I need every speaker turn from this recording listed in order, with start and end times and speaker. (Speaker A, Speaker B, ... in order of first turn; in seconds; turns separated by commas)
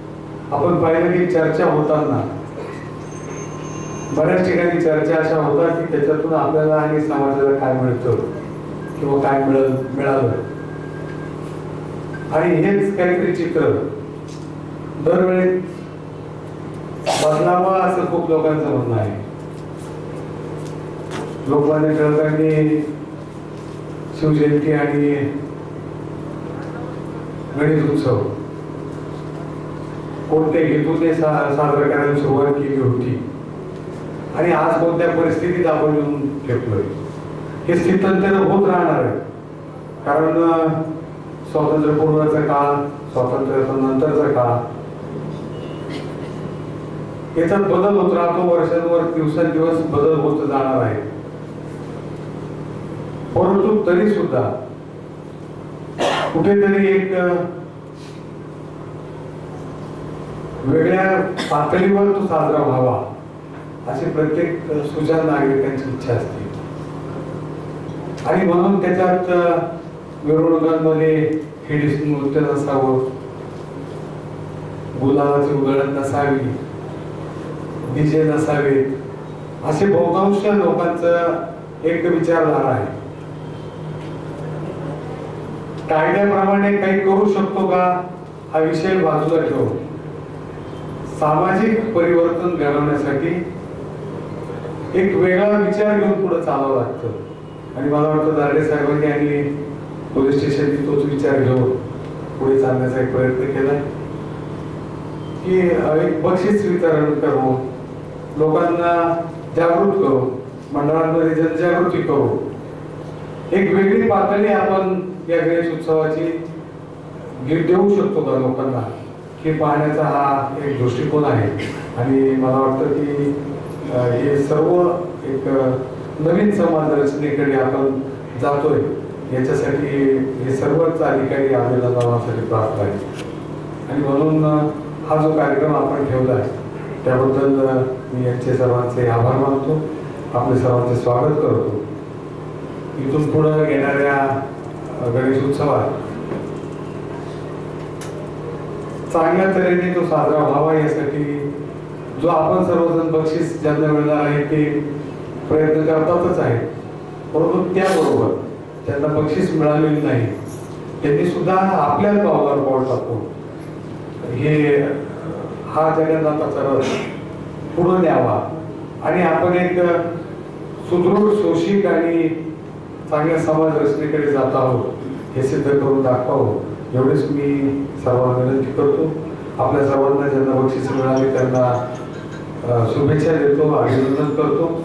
Speaker A: 0.5-2.2, Speaker A: 4.1-8.2, Speaker A: 9.0-10.4, Speaker A: 12.3-13.8, Speaker A: 15.0-15.6, Speaker A: 17.1-19.2, Speaker A: 21.4-22.9, Speaker A: 24.1-25.3, Speaker A: 27.5-28.3, Speaker A: 30.3-33.2, Speaker A: 34.3-36.9, Speaker A: 37.6-39.2, Speaker A: 40.0-40.8, Speaker A: 41.5-44.6, Speaker A: 47.3-51.1, Speaker A: 53.3-54.5, Speaker A: 56.3-57.5, Speaker A: 60.6-63.0, Speaker A: 63.8-66.5, Speaker A: 68.2-69.6, Speaker A: 70.2-73.0, Speaker A: 75.0-76.5, Speaker A: 77.9-78.8, Speaker A: 79.6-82.9, Speaker A: 85.9-89.8, Speaker A: 91.2-93.4, Speaker A: 94.9-97.2, Speaker A: 97.7-99.5, Speaker A: 100.1-101.7, Speaker A: 102.4-103.8, Speaker A: 105.4-107.6, Speaker A: 108.3-112.4, Speaker A: 113.5-116.4, Speaker A: 117.4-118.9, Speaker A: 119.4-123.3, Speaker A: 123.9-133.0, Speaker A: 133.9-136.5, Speaker A: 137.0-139.8, Speaker A: 140.3-141.8, Speaker A: 143.0-144.3, Speaker A: 144.9-145.9, Speaker A: 149.1-151.5, Speaker A: 152.2-154.8, Speaker A: 155.4-156.6, Speaker A: 157.3-160.3, Speaker A: 161.0-163.2, Speaker A: 164.2-167.0, Speaker A: 167.7-168.4, Speaker A: 169.0-170.0, Speaker A: 170.8-172.3, Speaker A: 173.1-181.7, Speaker A: 182.6-184.7